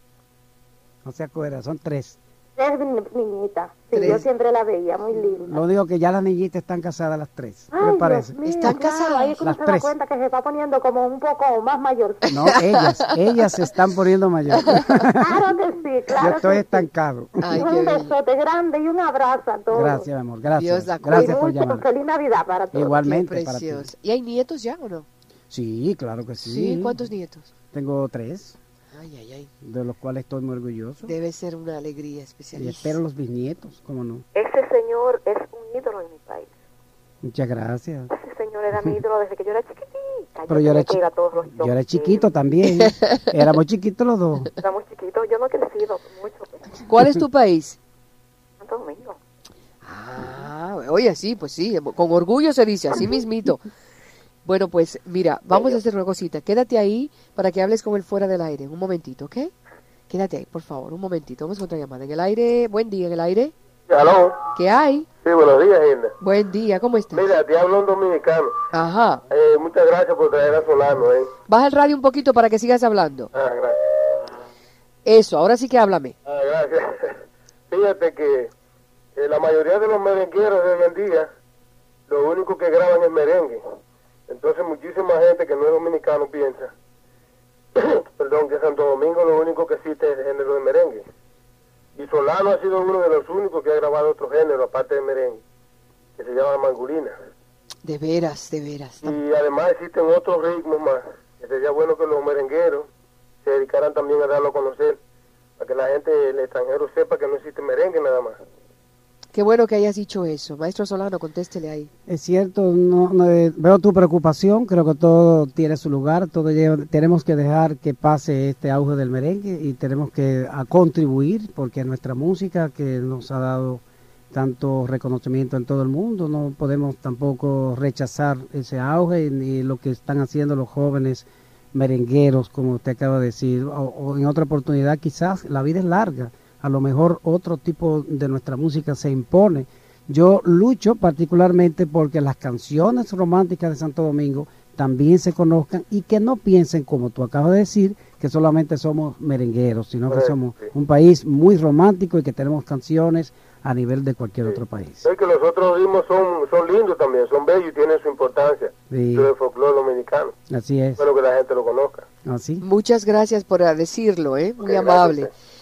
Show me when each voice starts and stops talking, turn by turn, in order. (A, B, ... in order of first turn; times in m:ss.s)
0:01.0-0:02.2 A
0:02.6-0:05.6 B
0:03.9-0:04.3 C
0:05.4-0:08.3 A
0:07.7-0:12.3 B
0:08.4-0:09.4 C
0:09.4-0:09.9 A
0:12.3-0:15.2 A
0:12.4-0:13.1 C
0:14.7-0:15.0 C
0:15.2-0:16.8 B
0:16.2-0:17.6 A
0:17.4-0:18.2 C
0:17.5-0:20.0 B
0:19.7-0:21.8 A
0:20.6-0:21.5 C
0:21.1-0:23.0 B
0:22.7-0:23.9 A
0:23.0-0:25.1 C
0:25.5-0:27.1 A
0:26.4-0:27.5 C
0:27.7-0:28.6 A
0:28.9-0:29.5 C
0:29.6-0:31.1 A
0:31.0-0:33.0 C
0:32.5-0:34.3 A
0:34.4-0:36.6 D
0:37.2-0:38.1 A
0:38.1-0:42.3 D
0:40.5-0:41.0 A
0:41.5-0:44.5 A
0:42.8-0:43.2 C
0:44.5-0:46.8 D
0:46.9-0:47.8 C
0:48.6-0:49.2 D
0:49.8-0:53.7 C
0:54.4-0:59.5 C
1:00.1-1:03.5 C
1:03.9-1:04.4 E
1:04.5-1:05.1 C
1:05.2-1:06.1 E
1:06.2-1:07.2 C
1:07.1-1:08.6 E
1:08.7-1:09.2 C
1:09.3-1:11.3 E
1:11.5-1:13.3 C
1:13.3-1:14.3 E
1:15.1-1:16.2 C
1:16.3-1:18.5 E
1:19.2-1:21.3 E
1:22.1-1:23.6 E
1:24.3-1:26.7 E
1:27.8-1:31.0 E
1:32.0-1:35.4 E
1:36.2-1:37.2 E
1:37.8-1:39.2 C
1:39.0-1:42.9 E
1:43.4-1:45.0 E
1:45.6-1:48.4 E
1:49.3-1:51.9 C
1:52.1-2:35.1 A
2:30.1-2:30.7 E
2:34.4-2:40.4 E
2:38.9-2:39.3 A
2:40.5-2:41.0 A
2:41.0-2:42.1 E
2:42.2-2:42.6 A
2:42.6-2:45.3 C
2:44.6-2:45.3 E